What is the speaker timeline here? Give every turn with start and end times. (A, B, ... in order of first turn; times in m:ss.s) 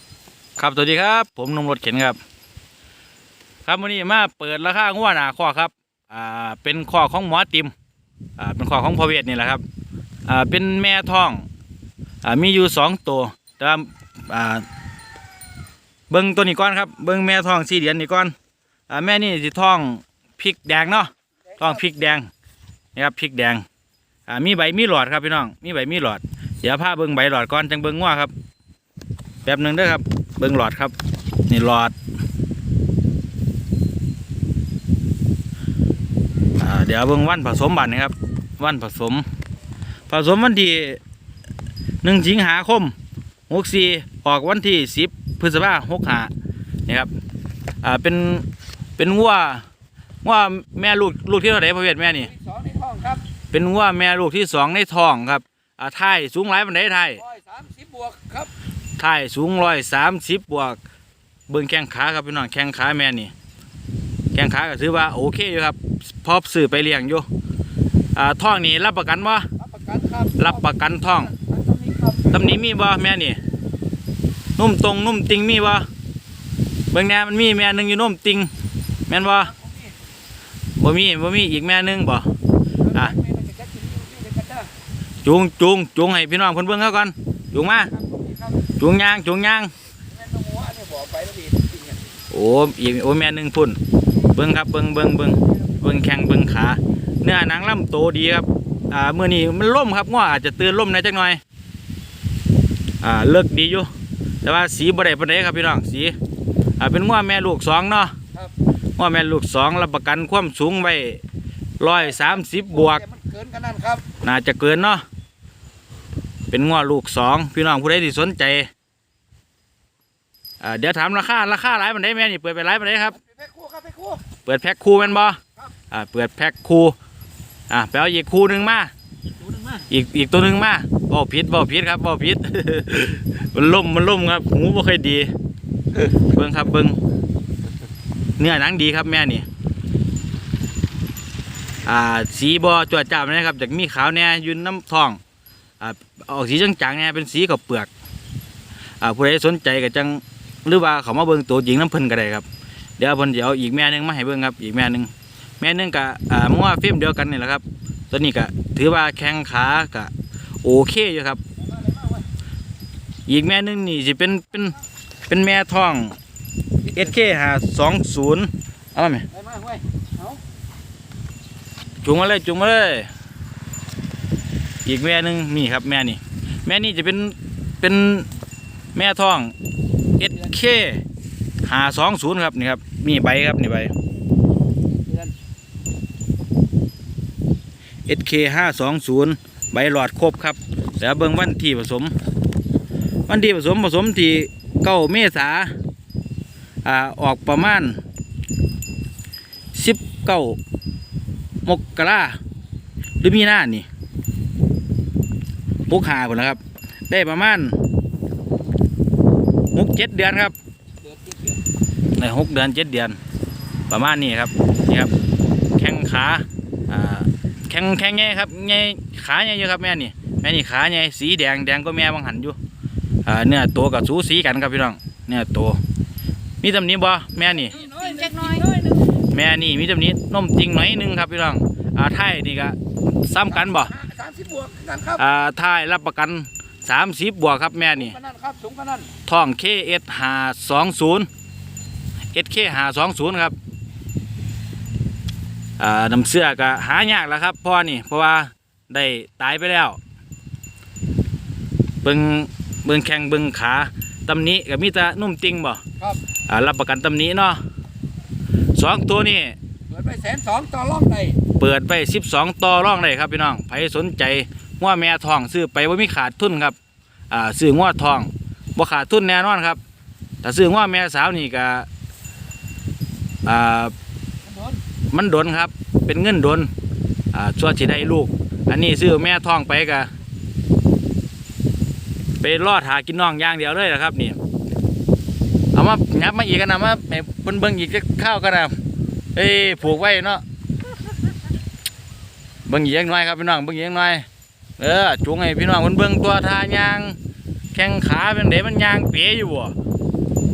0:00.6-0:02.2 A
0:03.6-0:07.7 A
0:08.4-0:09.6 A
0:10.3-0:11.4 A
0:12.2-0:14.6 A
0:16.1-0:18.3 A
0:18.9-0:22.3 A
0:22.9-0:23.6 A
0:24.3-0:28.3 A
0:29.4-0:30.9 A
0:31.5-0:31.9 A
0:36.6-0:39.2 A
0:40.1-0:41.0 A
0:42.0-0:42.9 A
0:43.5-0:46.3 A
0:47.8-0:48.4 A
0:49.0-0:49.6 A
0:50.2-0:52.3 A
0:52.3-0:53.2 B
0:53.5-0:57.2 A
0:57.2-0:58.5 B
0:59.0-1:00.8 A
1:01.5-1:03.3 A
1:04.3-1:07.2 A
1:08.1-1:09.5 A
1:09.6-1:10.6 B
1:10.4-1:11.3 A
1:11.3-1:12.3 B
1:12.3-1:13.4 A
1:14.6-1:15.9 A
1:16.9-1:18.5 A
1:19.1-1:19.5 A
1:20.8-1:22.3 A
1:22.9-1:24.7 B
1:25.2-1:27.9 A
1:27.9-1:28.6 B
1:28.8-1:29.7 A
1:30.1-1:32.0 B
1:32.3-1:33.8 A
1:34.3-1:41.4 A
1:43.0-1:43.9 A
1:44.4-1:46.2 A
1:46.8-1:48.1 A
1:49.0-1:51.2 A
1:51.8-1:53.0 A
1:52.0-1:54.0 B
1:54.2-1:55.0 A
1:56.5-1:58.7 A
2:00.6-2:03.2 A
2:03.2-2:04.2 B
2:04.4-2:05.4 A
2:05.9-2:06.9 A
2:07.7-2:08.9 A
2:09.8-2:15.3 A
2:16.0-2:17.0 A
2:18.4-2:19.4 A
2:21.8-2:25.2 A
2:25.8-2:27.9 A
2:29.0-2:32.4 A
2:33.0-2:40.1 A
2:40.6-2:41.4 A
2:41.8-2:42.2 B
2:43.3-2:44.8 A
2:45.3-2:46.2 A
2:46.9-2:49.2 A
2:49.3-2:50.4 B
2:52.0-2:53.1 A
2:54.8-2:58.3 A
2:58.9-2:59.5 A
3:00.2-3:01.0 A
3:01.6-3:03.9 A
3:05.0-3:05.3 B
3:08.1-3:12.1 A
3:13.3-3:15.7 A
3:16.8-3:18.0 A
3:19.7-3:20.6 A
3:21.6-3:22.4 A
3:23.2-3:23.8 A
3:25.9-3:27.8 A
3:29.7-3:30.5 A
3:31.1-3:31.6 B
3:32.2-3:33.2 A
3:33.9-3:35.1 A
3:35.8-3:42.6 A
3:43.2-3:45.8 A
3:46.6-3:47.9 A
3:47.7-3:49.0 B
3:49.3-3:53.9 A
3:53.6-3:55.2 B
3:55.2-3:58.2 A
3:57.9-3:59.1 B
3:59.2-4:01.3 A
4:02.3-4:03.5 A
4:05.8-4:10.0 A
4:12.0-4:15.8 A
4:16.5-4:17.6 A
4:18.7-4:19.6 A
4:19.9-4:21.4 B
4:21.6-4:26.8 A
4:27.3-4:29.8 A
4:30.4-4:31.9 A
4:33.4-4:33.9 A
4:34.5-4:34.8 B
4:35.1-4:36.7 A
4:37.3-4:40.1 A
4:42.4-4:44.4 A
4:45.7-4:48.7 A
4:49.3-4:50.4 A
4:52.7-4:54.2 A
4:54.8-4:57.2 A
4:57.7-4:59.7 A